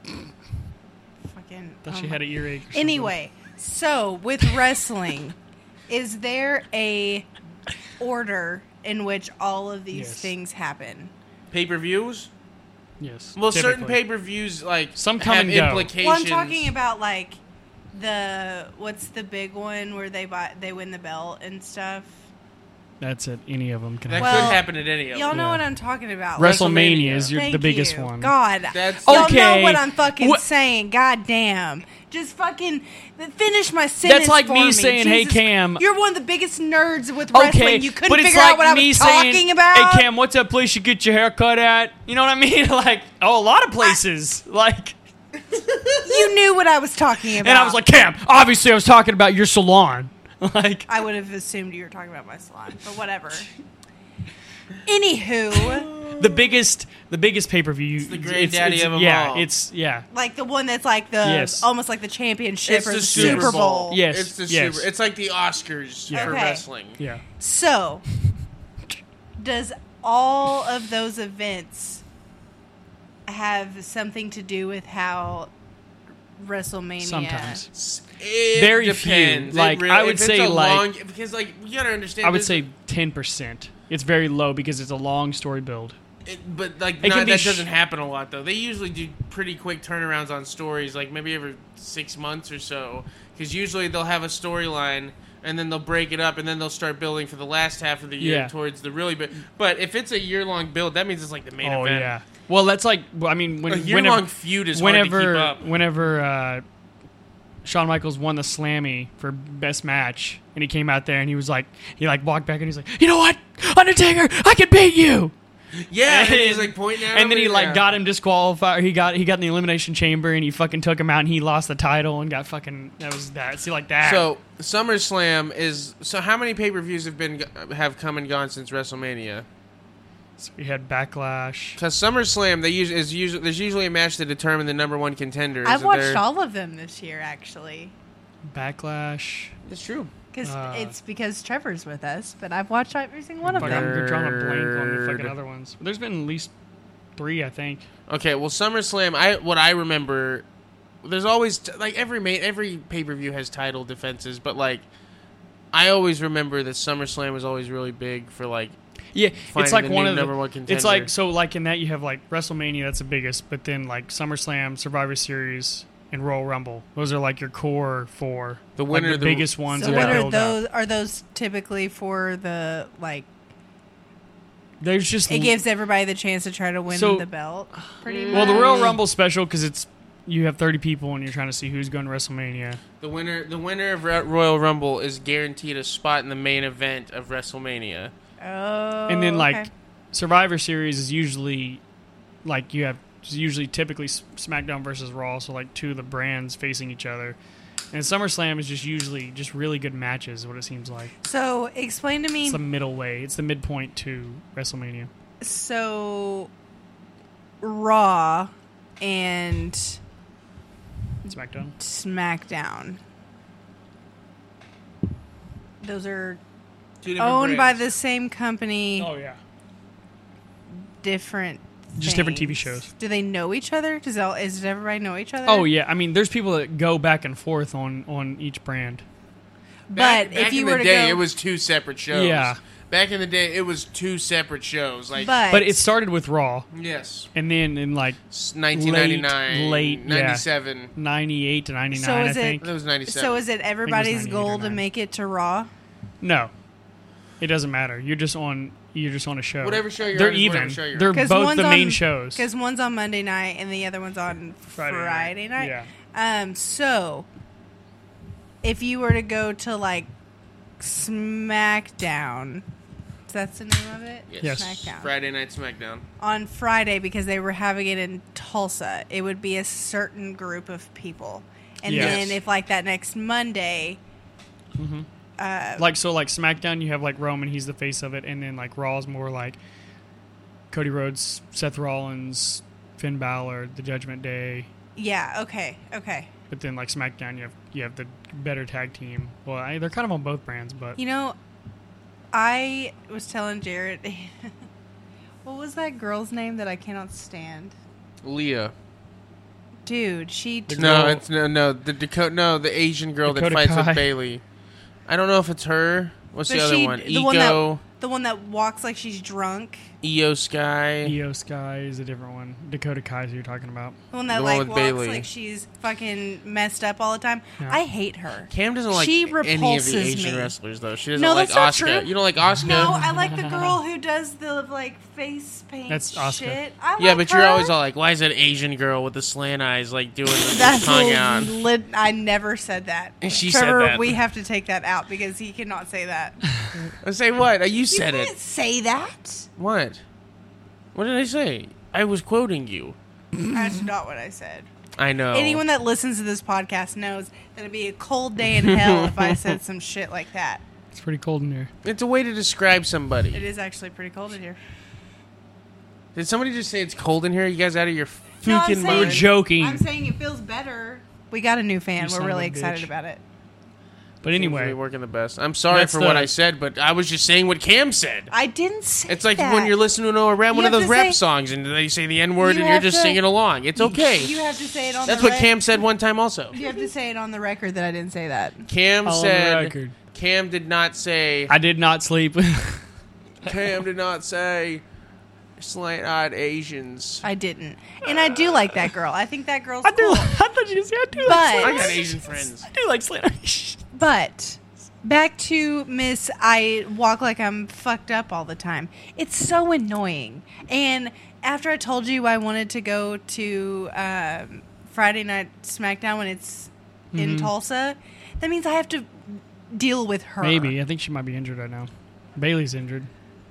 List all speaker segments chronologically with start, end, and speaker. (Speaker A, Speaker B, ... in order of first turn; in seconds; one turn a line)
Speaker A: 1.2-5.3
Speaker B: 1.8-3.1
Speaker A: 5.9-7.3
Speaker A: 8.0-11.1
Speaker B: 9.9-10.3
Speaker C: 11.5-12.3
Speaker B: 13.0-14.0
Speaker C: 13.3-16.7
Speaker B: 14.9-15.9
Speaker A: 16.0-17.4
Speaker A: 17.9-22.1
Speaker B: 23.0-24.6
Speaker C: 24.1-25.3
Speaker A: 24.1-40.1
Speaker B: 25.3-25.6
Speaker B: 26.4-28.3
Speaker C: 28.7-29.4
Speaker B: 29.0-30.4
Speaker B: 34.0-35.8
Speaker B: 37.3-45.0
Speaker C: 45.5-46.0
Speaker A: 46.0-47.8
Speaker B: 47.3-50.9
Speaker A: 50.9-53.5
Speaker A: 54.8-55.9
Speaker C: 55.6-56.5
Speaker B: 56.2-60.0
Speaker C: 58.0-59.5
Speaker A: 60.1-64.0
Speaker B: 61.2-61.6
Speaker C: 62.6-67.0
Speaker B: 63.1-64.9
Speaker A: 66.1-66.6
Speaker B: 67.0-67.2
Speaker A: 67.4-68.0
Speaker A: 69.4-72.0
Speaker A: 73.3-75.5
Speaker A: 76.4-77.6
Speaker B: 77.0-77.7
Speaker C: 77.7-82.6
Speaker B: 78.5-80.8
Speaker B: 82.2-86.0
Speaker C: 86.2-102.1
Speaker B: 87.0-87.7
Speaker B: 98.2-98.5
Speaker B: 101.6-106.6
Speaker C: 103.7-105.6
Speaker B: 107.6-115.3
Speaker C: 115.9-117.8
Speaker B: 116.0-124.3
Speaker C: 124.0-129.5
Speaker B: 130.4-131.8
Speaker C: 131.8-136.2
Speaker A: 135.6-137.9
Speaker B: 138.5-139.5
Speaker C: 139.6-140.1
Speaker A: 140.3-143.9
Speaker B: 140.4-140.9
Speaker B: 143.5-146.5
Speaker C: 143.5-145.3
Speaker B: 147.2-147.8
Speaker C: 148.1-150.4
Speaker C: 151.0-154.8
Speaker C: 155.7-158.8
Speaker B: 159.1-170.6
Speaker C: 159.5-161.1
Speaker C: 168.8-170.3
Speaker A: 169.7-173.3
Speaker B: 174.8-175.6
Speaker A: 175.3-178.9
Speaker B: 176.9-177.2
Speaker C: 178.1-178.9
Speaker B: 178.3-182.8
Speaker C: 183.0-188.1
Speaker A: 188.4-189.7
Speaker B: 189.1-191.8
Speaker B: 192.4-197.4
Speaker B: 197.9-201.1
Speaker A: 201.2-202.6
Speaker B: 202.4-205.1
Speaker A: 205.4-206.5
Speaker A: 207.6-210.0
Speaker B: 211.2-211.7
Speaker A: 211.8-213.0
Speaker A: 215.8-216.4
Speaker C: 217.0-217.9
Speaker A: 217.2-219.1
Speaker B: 219.0-219.4
Speaker A: 221.0-225.7
Speaker B: 222.0-222.9
Speaker B: 225.4-229.0
Speaker A: 229.9-231.2
Speaker C: 229.9-235.4
Speaker B: 232.1-232.6
Speaker A: 235.2-235.8
Speaker B: 235.5-236.7
Speaker C: 236.7-237.3
Speaker B: 237.3-238.2
Speaker C: 238.3-240.9
Speaker B: 238.7-242.6
Speaker A: 241.9-245.7
Speaker C: 242.6-243.4
Speaker B: 243.8-244.8
Speaker B: 246.2-246.5
Speaker B: 247.4-252.4
Speaker C: 249.6-251.2
Speaker A: 251.1-257.2
Speaker B: 254.7-255.9
Speaker A: 258.6-260.1
Speaker A: 260.8-262.6
Speaker A: 263.3-265.1
Speaker C: 264.3-266.0
Speaker B: 264.4-264.7
Speaker A: 266.2-274.0
Speaker B: 271.8-272.2
Speaker C: 271.9-272.4
Speaker B: 274.8-275.1
Speaker A: 275.4-275.9
Speaker B: 275.8-279.6
Speaker B: 280.7-284.7
Speaker A: 284.9-286.3
Speaker B: 286.5-291.0
Speaker A: 291.0-291.4
Speaker A: 292.3-294.5
Speaker A: 295.4-297.7
Speaker C: 298.2-298.7
Speaker A: 299.9-301.0
Speaker B: 300.7-301.2
Speaker C: 300.8-304.4
Speaker B: 303.2-304.1
Speaker C: 305.1-307.8
Speaker A: 306.5-309.9
Speaker C: 310.0-311.2
Speaker B: 311.0-314.0
Speaker A: 314.1-320.5
Speaker C: 314.3-315.3
Speaker C: 318.5-323.0
Speaker A: 321.1-327.7
Speaker B: 322.7-323.8
Speaker B: 325.9-326.6
Speaker C: 327.0-331.6
Speaker A: 330.4-336.8
Speaker C: 333.2-334.1
Speaker C: 337.0-338.3
Speaker A: 337.9-339.5
Speaker C: 339.6-340.0
Speaker C: 340.9-342.9
Speaker A: 343.5-344.7
Speaker C: 345.0-345.6
Speaker A: 345.3-350.6
Speaker C: 348.6-349.3
Speaker B: 350.9-351.7
Speaker C: 351.8-353.4
Speaker A: 353.3-354.6
Speaker C: 356.1-359.2
Speaker A: 358.4-363.2
Speaker B: 358.8-359.8
Speaker B: 362.0-362.9
Speaker B: 364.2-364.8
Speaker C: 364.3-368.3
Speaker B: 365.7-366.3
Speaker A: 368.3-369.8
Speaker C: 369.1-374.4
Speaker A: 370.5-371.2
Speaker A: 372.4-373.2
Speaker A: 373.8-375.7
Speaker C: 375.0-376.6
Speaker A: 376.5-378.7
Speaker C: 378.7-381.5
Speaker B: 379.0-379.9
Speaker B: 381.5-382.8
Speaker C: 383.4-384.8
Speaker C: 385.6-387.2
Speaker A: 387.2-390.3
Speaker B: 389.8-392.0
Speaker A: 391.2-392.2
Speaker C: 391.6-392.7
Speaker B: 392.6-393.8
Speaker A: 393.9-410.7
Speaker B: 407.1-407.5
Speaker B: 410.4-413.1